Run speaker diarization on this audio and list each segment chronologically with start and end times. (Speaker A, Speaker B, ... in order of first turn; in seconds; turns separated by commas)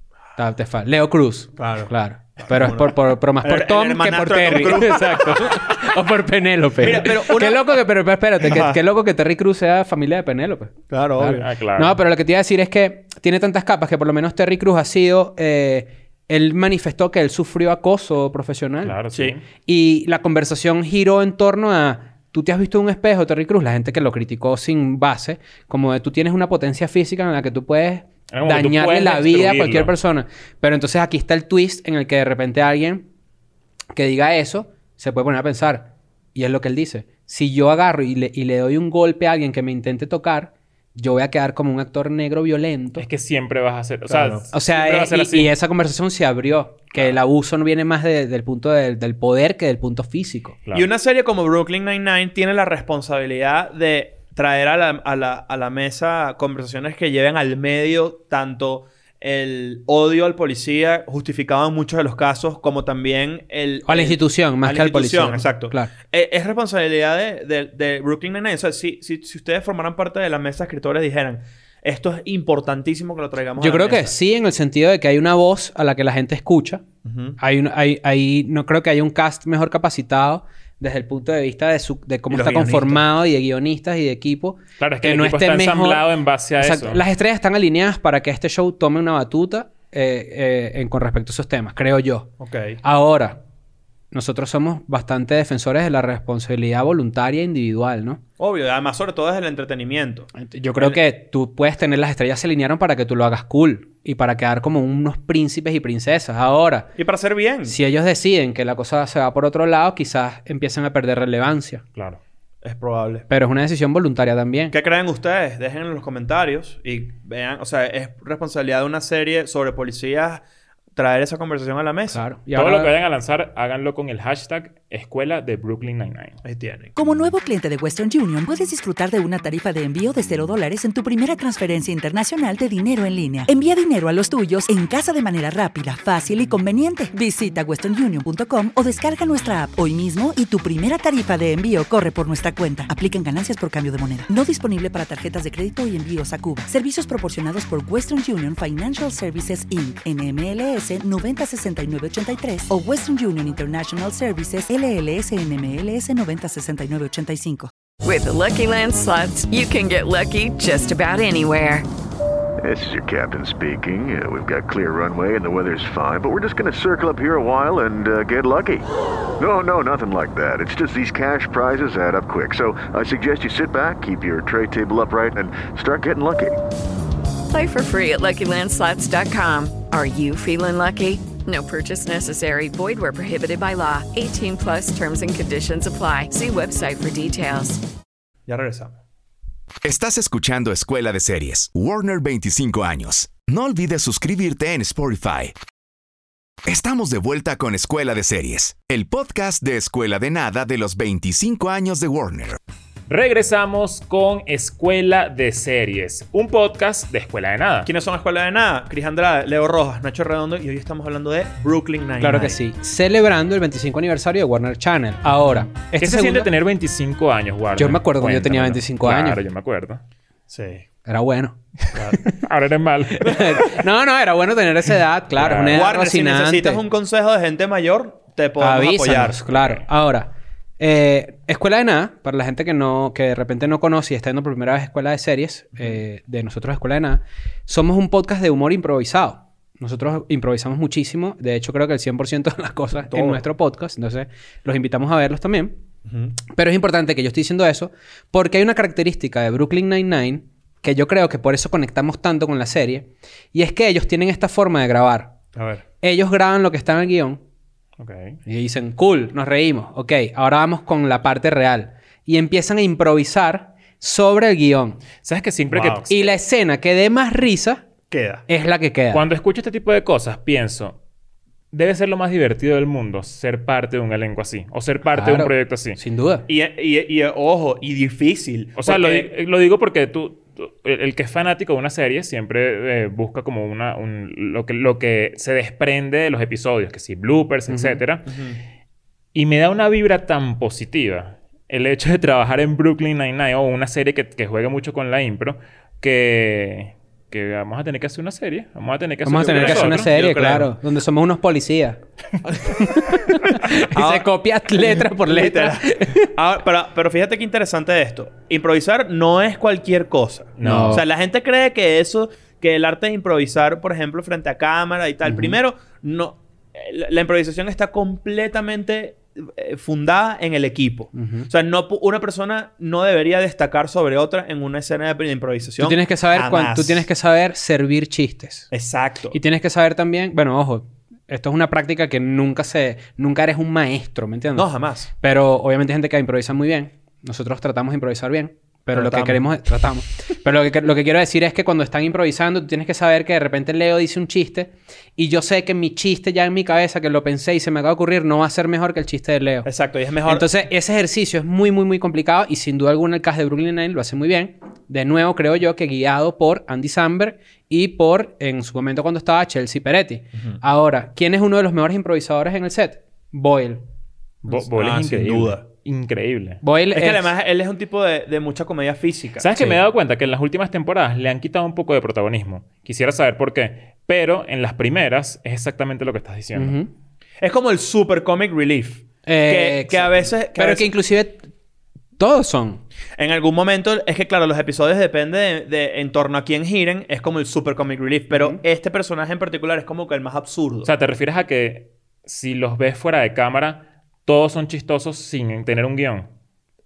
Speaker A: 0.3-19.0, Speaker B: 1.6-5.5, Speaker C: 4.5-5.5, Speaker B: 6.8-7.8, Speaker B: 8.4-8.8, Speaker B: 10.9-11.4, Speaker C: 11.4-11.9, Speaker C: 18.8-19.4, Speaker A: 19.6-33.0, Speaker C: 28.3-29.9, Speaker A: 33.9-43.0, Speaker C: 43.0-45.5, Speaker B: 44.1-44.5, Speaker A: 44.5-50.6, Speaker B: 50.7-74.1, Speaker A: 63.9-65.9, Speaker A: 73.6-76.8, Speaker B: 77.0-77.4, Speaker A: 77.4-86.1, Speaker B: 82.3-83.0, Speaker C: 84.8-87.0, Speaker A: 86.6-92.3, Speaker B: 92.4-92.8, Speaker A: 92.8-93.4, Speaker A: 94.1-98.2, Speaker B: 98.4-100.3, Speaker A: 100.3-106.9, Speaker B: 107.0-107.8, Speaker A: 107.6-111.8, Speaker C: 111.9-112.2, Speaker B: 112.6-113.3, Speaker A: 113.3-114.7, Speaker B: 114.7-120.4, Speaker B: 121.0-122.2, Speaker A: 122.1-122.9, Speaker C: 122.5-126.4, Speaker B: 126.4-126.9, Speaker D: 126.9-157.7, Speaker E: 158.0-161.8, Speaker F: 162.6-168.8, Speaker F: 169.4-176.6, Speaker E: 177.5-187.8, Speaker B: 188.5-188.9, Speaker G: 189.8-195.5, Speaker G: 196.7-202.6, Speaker C: 203.1-207.9, Speaker B: 207.8-212.6, Speaker A: 212.2-216.5, Speaker C: 216.0-220.0, Speaker A: 217.8-219.4, Speaker B: 220.5-220.8, Speaker A: 221.1-221.8, Speaker C: 222.4-223.3, Speaker A: 223.2-226.8, Speaker B: 225.4-229.4, Speaker A: 228.6-245.8, Speaker C: 229.5-229.8, Speaker B: 243.0-243.4, Speaker B: 246.1-246.4, Speaker A: 246.5-255.3, Speaker B: 255.5-255.8, Speaker A: 256.0-257.4, Speaker C: 258.0-258.4, Speaker A: 258.4-265.0, Speaker C: 265.2-266.1, Speaker B: 265.7-266.0, Speaker A: 266.1-267.8, Speaker B: 268.1-268.4, Speaker A: 268.5-269.2, Speaker C: 269.1-271.0, Speaker C: 271.7-276.0, Speaker A: 275.1-276.4, Speaker B: 276.5-279.3, Speaker C: 278.8-288.3, Speaker A: 287.7-288.0, Speaker B: 288.3-288.6, Speaker C: 289.3-300.1, Speaker A: 299.2-302.0, Speaker B: 299.3-300.7, Speaker B: 302.4-302.9, Speaker A: 302.8-306.3, Speaker B: 303.9-304.2, Speaker B: 304.8-327.1, Speaker C: 310.6-311.0, Speaker A: 310.6-311.0, Speaker A: 315.2-315.6, Speaker A: 321.1-321.5, Speaker A: 325.8-328.7, Speaker B: 328.7-329.4, Speaker A: 329.3-349.7, Speaker B: 334.6-335.1, Speaker B: 338.9-339.4, Speaker B: 349.6-350.5, Speaker A: 350.3-363.8, Speaker C: 364.4-366.6, Speaker B: 364.5-365.6, Speaker A: 366.6-367.3, Speaker B: 366.9-369.5, Speaker C: 369.4-376.8, Speaker A: 376.6-376.9, Speaker B: 377.4-380.9, Speaker A: 379.2-381.5, Speaker A: 382.2-382.8, Speaker B: 383.2-390.9, Speaker A: 388.3-388.6, Speaker C: 390.8-396.3